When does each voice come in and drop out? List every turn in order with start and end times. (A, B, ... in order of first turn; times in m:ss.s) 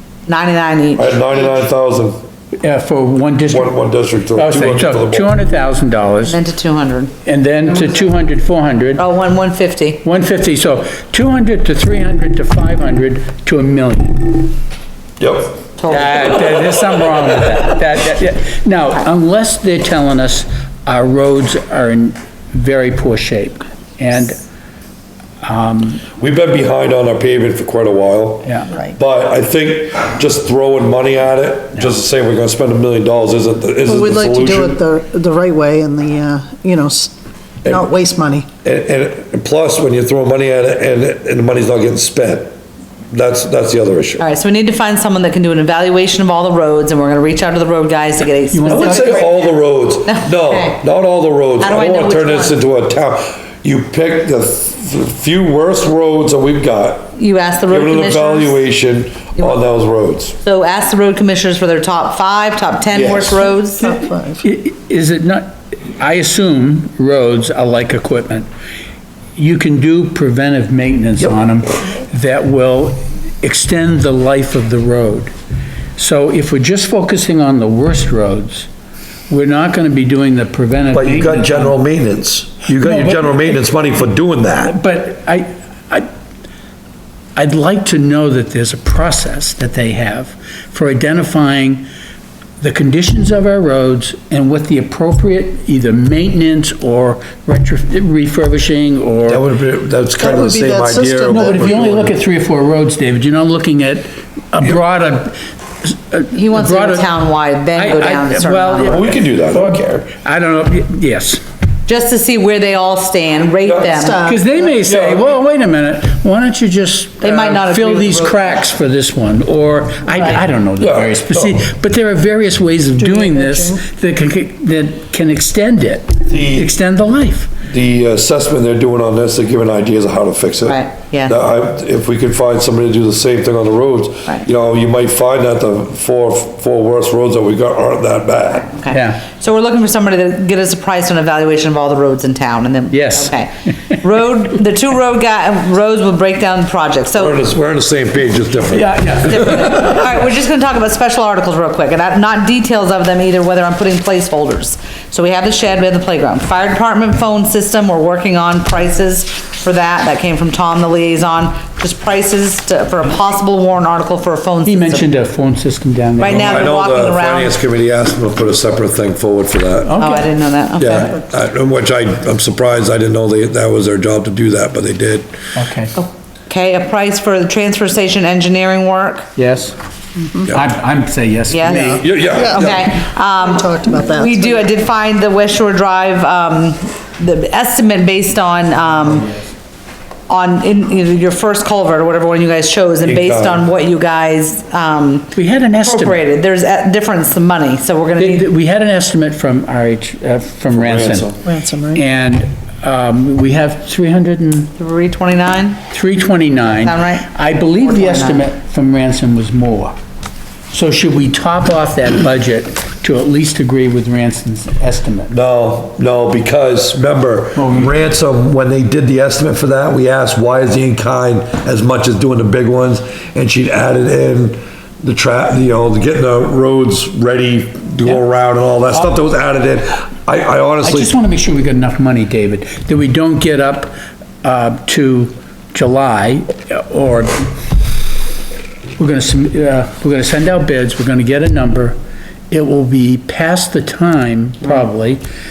0:00.3-0:01.6 A
0:01.0-0:02.2 B
0:02.6-0:06.4 C
0:03.5-0:05.3 B
0:06.2-0:07.1 A
0:07.2-0:09.0 C
0:08.9-0:10.0 A
0:10.0-0:14.5 C
0:15.2-0:15.6 B
0:15.8-0:16.4 A
0:15.9-0:24.4 C
0:25.4-0:26.0 C
0:26.2-0:34.8 B
0:28.4-0:28.7 C
0:33.8-0:37.1 D
0:37.6-0:38.5 D
0:38.6-0:42.5 B
0:43.1-0:44.2 B
0:44.2-0:50.8 A
0:48.5-0:49.3 C
0:48.7-0:57.1 B
0:51.6-0:52.6 A
0:57.1-0:58.6 A
0:57.7-1:00.4 B
1:00.4-1:03.8 A
1:02.9-1:03.4 B
1:03.8-1:08.5 C
1:03.8-1:04.4 D
1:09.4-1:15.3 C
1:16.0-1:18.7 C
1:19.3-1:21.7 C
1:20.9-1:24.8 B
1:22.7-1:23.6 C
1:24.6-1:26.1 C
1:27.4-1:31.8 C
1:32.6-1:39.4 C
1:39.3-1:42.1 B
1:40.2-1:41.9 D
1:41.3-1:47.1 C
1:46.3-1:49.0 A
1:47.7-1:51.4 C
1:48.8-1:50.1 B
1:51.9-1:54.3 A
1:53.6-1:54.0 B
1:53.9-1:54.6 D
1:54.2-2:07.5 C
1:54.8-1:55.3 B
1:57.2-1:58.7 A
2:00.8-2:01.6 B
2:03.0-2:03.8 D
2:06.3-2:06.7 B
2:07.7-2:18.7 B
2:10.6-2:11.4 A
2:18.6-2:27.4 A
2:18.9-2:19.2 C
2:22.9-2:23.4 C
2:27.1-2:29.7 B
2:28.7-2:30.1 C
2:29.3-2:45.0 A
2:44.6-2:46.7 C
2:46.2-2:47.5 A
2:46.2-2:50.0 B
2:49.9-2:50.4 C
2:50.0-2:51.1 A
2:50.8-2:55.3 B
2:55.5-2:55.9 C
2:56.0-2:59.3 A
2:59.4-2:59.8 C
3:00.5-3:02.1 C
3:01.5-3:02.0 A
3:01.7-3:04.7 D
3:02.0-3:03.0 B
3:02.5-3:09.3 A
3:10.3-3:18.4 A
3:13.0-3:13.6 B
3:15.3-3:16.2 C
3:18.2-3:21.3 C
3:20.7-3:21.4 B
3:21.4-3:22.0 D
3:21.9-3:24.7 C
3:24.8-3:25.8 A
3:25.8-3:29.9 C
3:26.7-3:28.4 A
3:30.7-3:35.4 C
3:35.3-3:51.1 B
3:37.5-3:38.0 C
3:50.8-3:57.5 C
3:59.0-4:02.0 C
4:02.5-4:05.2 C